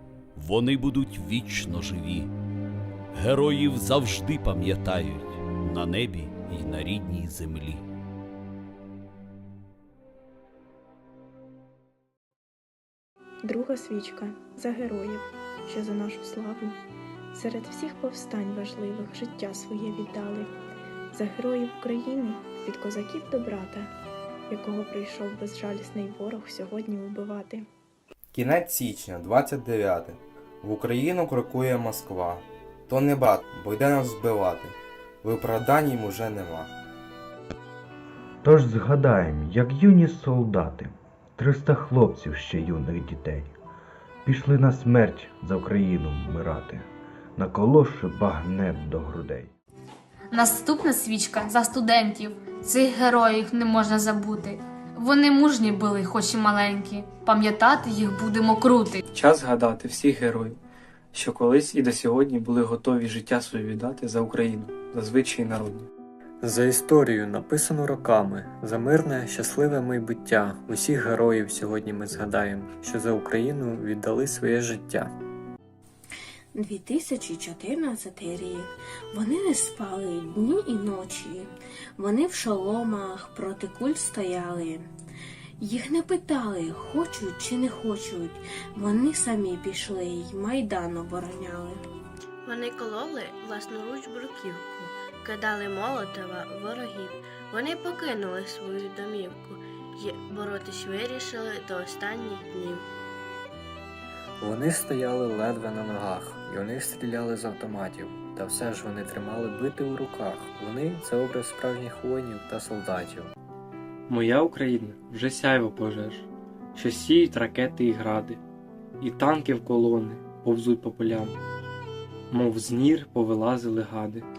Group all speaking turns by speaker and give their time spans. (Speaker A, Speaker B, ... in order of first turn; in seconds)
Speaker A: 0.3-2.3, 3.1-7.8
Speaker B: 13.4-16.8, 17.3-20.5, 21.1-23.9, 24.5-27.6
Speaker C: 28.3-36.7
Speaker D: 38.4-43.5, 44.2-49.5
Speaker E: 50.3-59.0
Speaker F: 59.1-60.6, 61.1-65.9, 114.1-118.4, 119.0-121.3, 122.3-124.2
Speaker G: 66.4-75.1, 104.4-113.3
Speaker H: 76.5-84.9, 85.6-91.8
Speaker I: 92.4-102.8